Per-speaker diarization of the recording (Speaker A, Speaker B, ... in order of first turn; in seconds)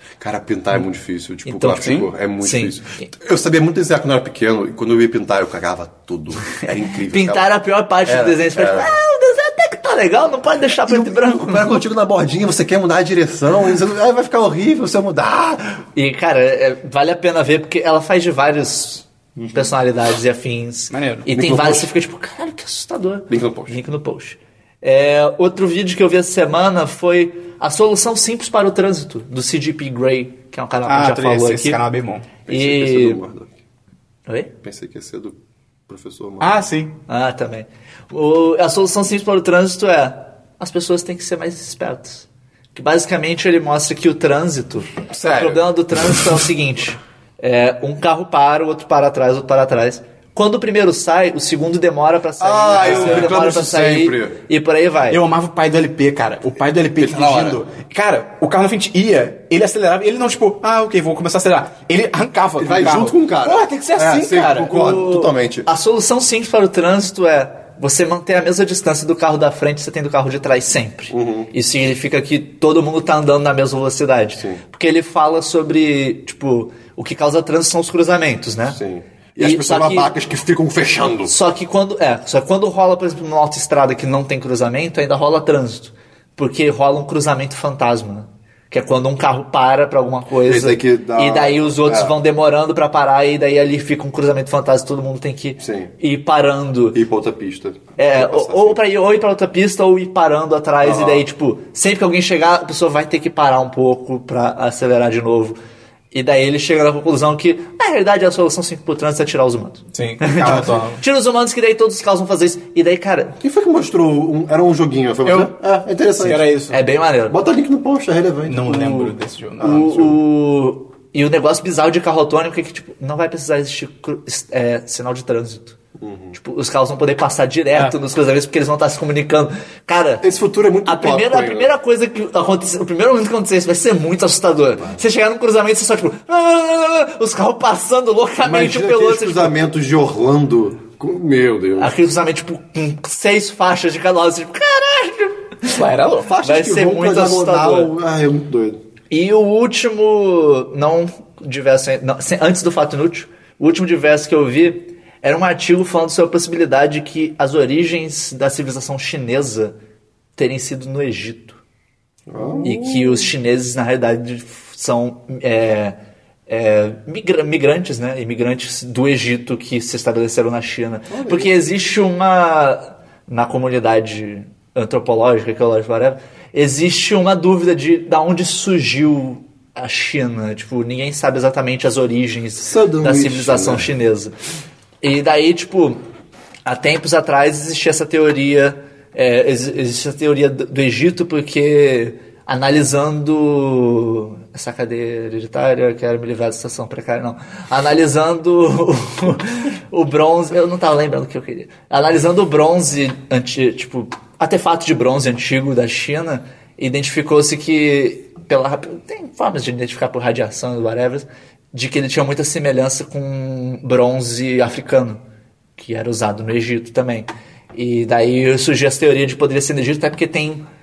Speaker A: 0.2-7.5, 8.1-8.9, 10.9-15.8, 19.4-19.7, 21.3-21.9, 23.3-23.8, 32.5-33.5, 34.6-35.4, 35.9-36.7, 45.1-46.4, 52.4-54.4, 57.0-57.6, 62.6-65.7, 71.1-71.5, 78.7-81.3, 90.5-92.2, 95.6-95.9, 96.9-98.8, 100.8-101.2, 113.4-116.5, 117.3-119.1, 126.0-126.4, 130.2-131.7, 138.4-141.9, 146.2-148.8, 162.3-163.3, 171.1-171.5, 182.6-183.9
Speaker B: 1.5-3.1, 7.1-11.8, 16.0-31.8, 32.5-33.2, 37.1-55.2, 64.7-78.8, 79.4-80.1, 81.3-97.0, 98.0-105.6, 106.1-113.4, 116.7-117.4, 119.6-125.8, 126.3-130.2, 130.8-139.6, 141.8-145.8, 146.4-147.9, 149.1-159.8, 160.4-161.6, 162.6-166.0, 166.5-184.3, 185.0-186.0, 186.7-215.2, 215.8-220.7
Speaker C: 1.8-2.1, 20.9-21.3, 30.9-32.3, 36.4-37.0, 52.8-53.3, 55.1-65.0, 109.9-111.0, 115.3-115.5, 116.2-116.8, 118.5-120.2, 145.7-146.3